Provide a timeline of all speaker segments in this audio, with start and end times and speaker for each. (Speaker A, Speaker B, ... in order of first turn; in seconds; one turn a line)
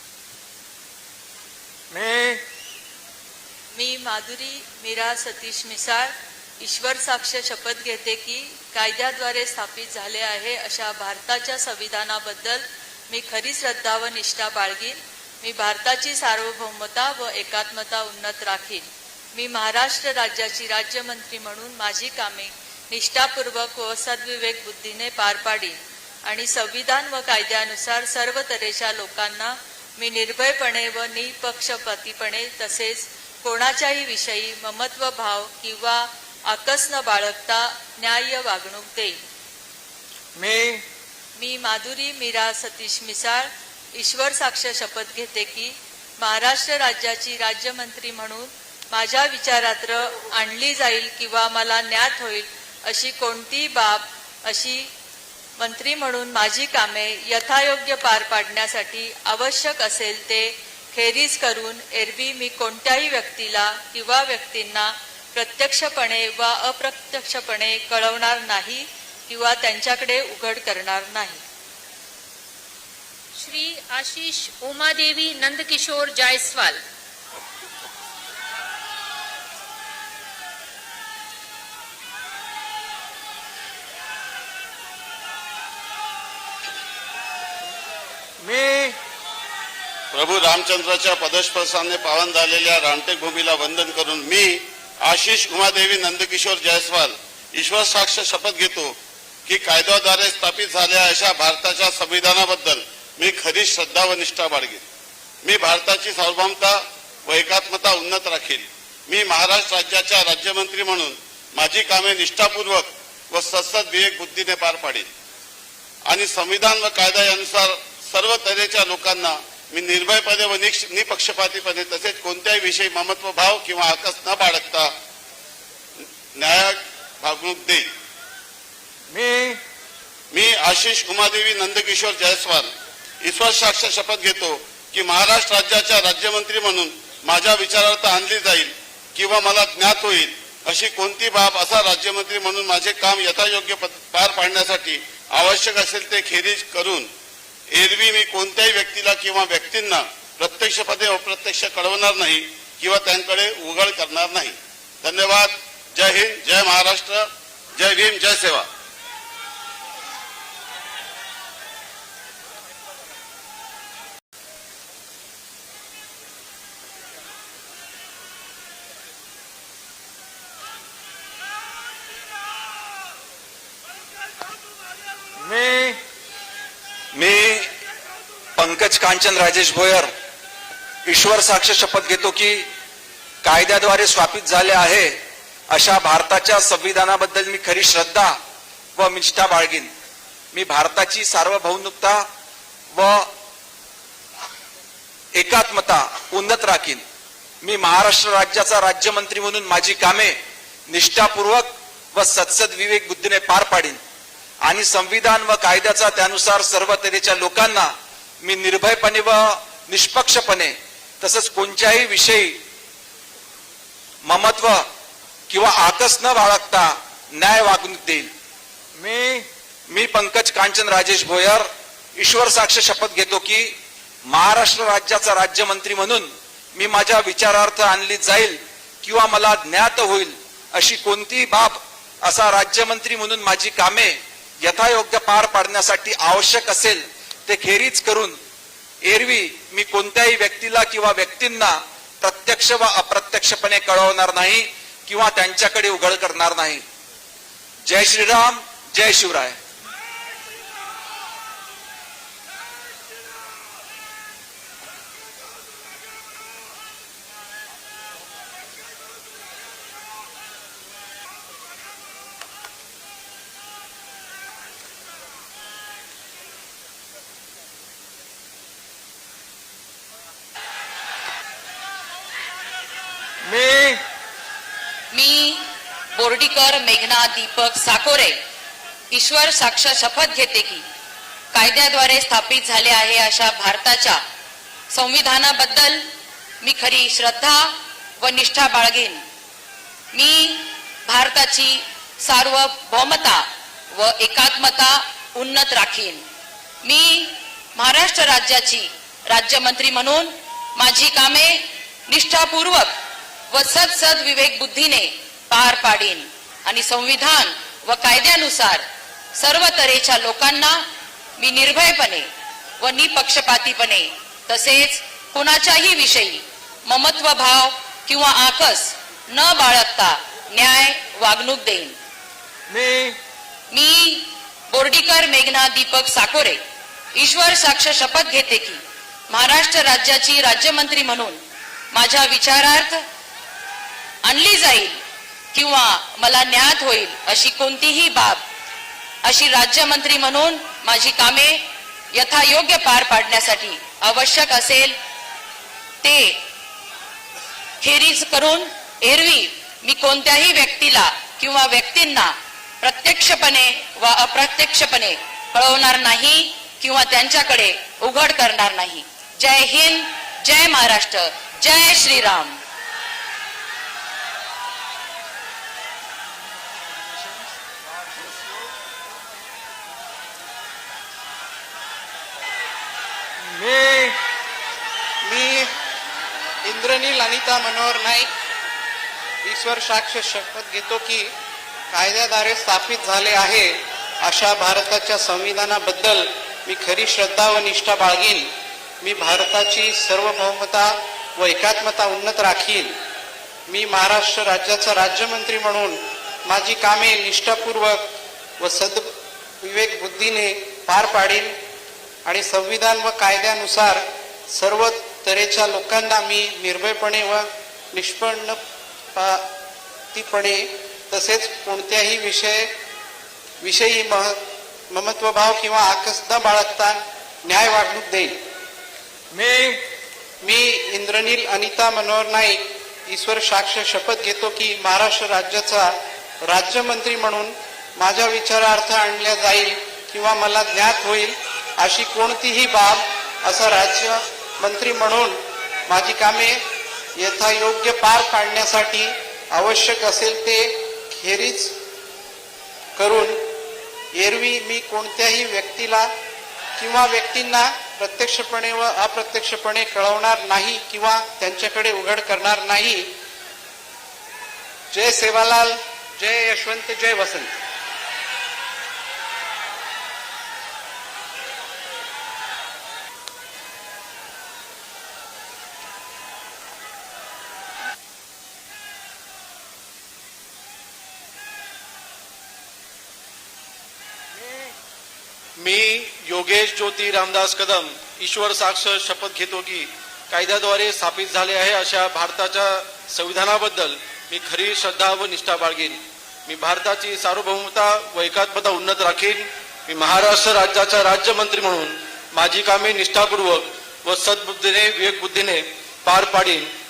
Speaker A: 1.9-2.4
Speaker B: 3.7-18.8
Speaker B: 19.3-39.2
Speaker A: 40.4-40.8
Speaker B: 41.4-54.9
Speaker B: 55.6-71.4
Speaker C: 73.4-76.8
Speaker A: 88.4-89.0
Speaker D: 90.1-98.9
Speaker D: 99.5-104.8
Speaker D: 105.4-115.1
Speaker D: 116.1-124.9
Speaker D: 126.3-127.9
Speaker A: 129.1-129.6
Speaker D: 130.3-132.7
Speaker D: 133.2-147.1
Speaker D: 147.7-158.7
Speaker A: 175.4-176.0
Speaker E: 177.1-177.7
Speaker E: 178.6-180.1
Speaker E: 181.1-182.7
Speaker E: 183.4-185.1
Speaker E: 185.7-188.3
Speaker E: 188.9-189.9
Speaker E: 190.5-192.2
Speaker E: 192.9-193.3
Speaker E: 195.3-197.0
Speaker E: 197.6-200.4
Speaker E: 200.9-204.0
Speaker E: 204.6-207.9
Speaker E: 208.4-212.6
Speaker E: 214.2-214.8
Speaker E: 215.5-218.3
Speaker A: 219.0-219.5
Speaker E: 219.9-221.7
Speaker E: 222.2-223.7
Speaker E: 224.3-238.4
Speaker E: 239.0-246.8
Speaker E: 247.8-249.6
Speaker A: 273.4-274.0
Speaker F: 275.1-275.6
Speaker F: 276.1-278.4
Speaker F: 279.1-280.8
Speaker F: 281.5-284.2
Speaker F: 284.9-286.0
Speaker F: 286.6-289.2
Speaker F: 290.1-296.2
Speaker F: 296.8-302.9
Speaker F: 303.5-308.8
Speaker F: 309.4-310.8
Speaker F: 311.4-312.3
Speaker F: 312.8-321.9
Speaker A: 322.7-323.2
Speaker F: 323.7-326.6
Speaker F: 327.1-331.4
Speaker F: 331.9-333.0
Speaker F: 334.2-335.0
Speaker F: 335.5-338.4
Speaker F: 339.2-344.9
Speaker F: 346.0-346.4
Speaker F: 347.8-362.6
Speaker A: 373.5-374.2
Speaker G: 375.2-375.7
Speaker G: 376.6-378.3
Speaker G: 379.4-381.3
Speaker G: 381.9-388.5
Speaker G: 389.0-392.9
Speaker G: 393.7-398.0
Speaker G: 398.6-399.1
Speaker G: 399.6-401.5
Speaker G: 402.2-408.6
Speaker G: 409.1-409.4
Speaker G: 410.1-412.7
Speaker G: 413.6-414.4
Speaker G: 414.9-418.3
Speaker A: 419.3-419.8
Speaker G: 420.4-425.9
Speaker G: 426.5-436.6
Speaker G: 437.2-441.7
Speaker G: 443.0-443.4
Speaker G: 444.1-446.1
Speaker G: 446.8-453.1
Speaker G: 454.9-457.6
Speaker H: 475.6-496.7